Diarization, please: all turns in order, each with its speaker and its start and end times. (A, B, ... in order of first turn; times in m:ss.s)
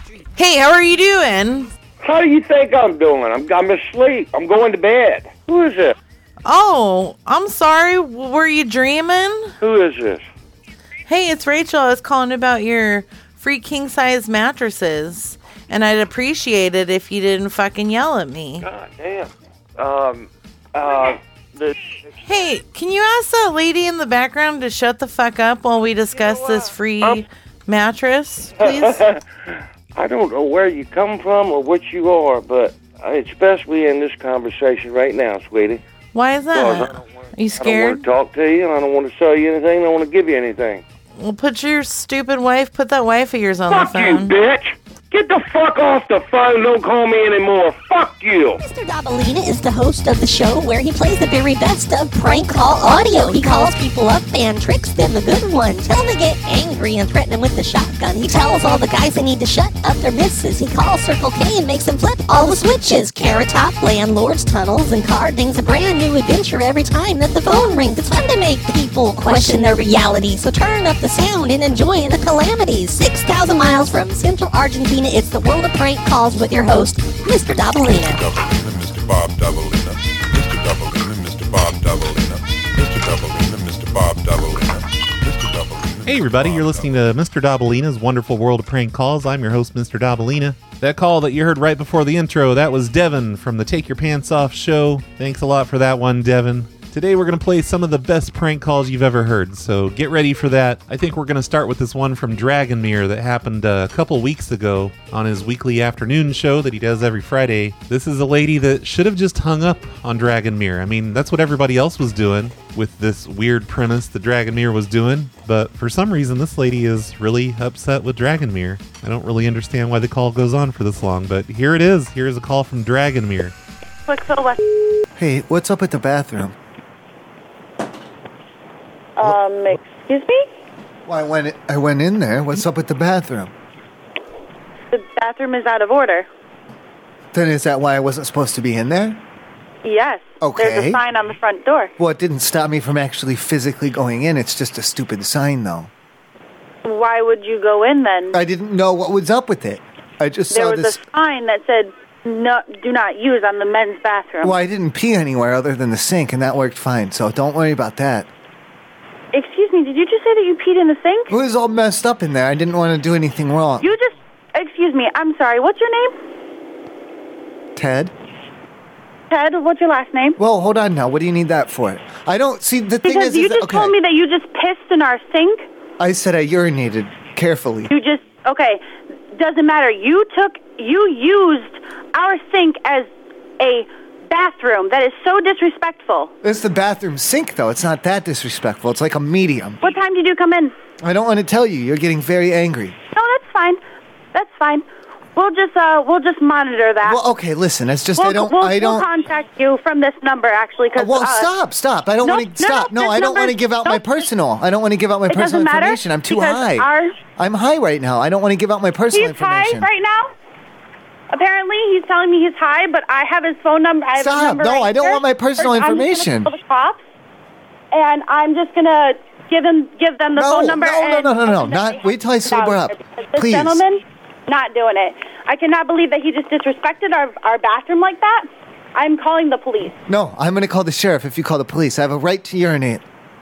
0:00.4-0:01.7 A
0:02.0-0:06.0 B
0:06.4-0:09.5 A
0:09.6-0:10.2 B
0:11.1-0:18.7 A
0:18.6-0:21.9 B
0:22.2-0:29.0 A
0:26.2-0:27.2 B
0:28.6-0:29.2 B
0:30.0-0:35.8 B
0:36.1-0:38.0 A
0:36.5-0:40.8 B
0:41.2-0:44.3 A
0:43.7-0:48.6 B
0:48.6-1:18.2 C
1:18.1-1:27.0 D
1:26.1-2:03.6 E
2:04.1-2:04.6 F
2:05.2-2:06.6 G
2:09.2-2:10.5 F
2:11.1-2:13.5 G
2:14.9-2:16.3 F
2:17.3-2:19.2 G
2:19.8-2:21.9 F
2:20.4-2:21.0 G
2:22.0-2:25.9 G
2:26.8-2:28.4 F
2:28.3-2:31.0 G
2:30.5-2:34.5 F
2:34.4-2:38.3 G
2:39.3-2:41.3 F
2:41.3-2:43.9 G
2:43.8-2:46.2 F
2:47.8-2:48.1 G
2:49.3-2:50.4 F
2:50.4-2:54.0 G
2:53.0-2:55.6 F
2:56.0-2:57.9 G
2:57.9-2:58.8 F
2:59.3-3:03.1 F
3:03.6-3:06.3 F
3:06.4-3:09.8 G
3:09.8-3:10.7 F
3:11.0-3:13.0 G
3:13.2-3:13.8 F
3:14.3-3:14.8 F
3:15.4-3:17.2 F
3:17.0-3:19.1 G
3:18.2-3:21.5 F
3:21.0-3:29.9 G
3:22.2-3:24.0 F
3:25.3-3:27.2 F
3:29.1-3:30.3 F
3:31.3-3:37.0 F
3:34.2-3:36.5 G
3:37.9-3:50.0 F
3:40.4-3:43.8 G
3:50.1-3:53.0 G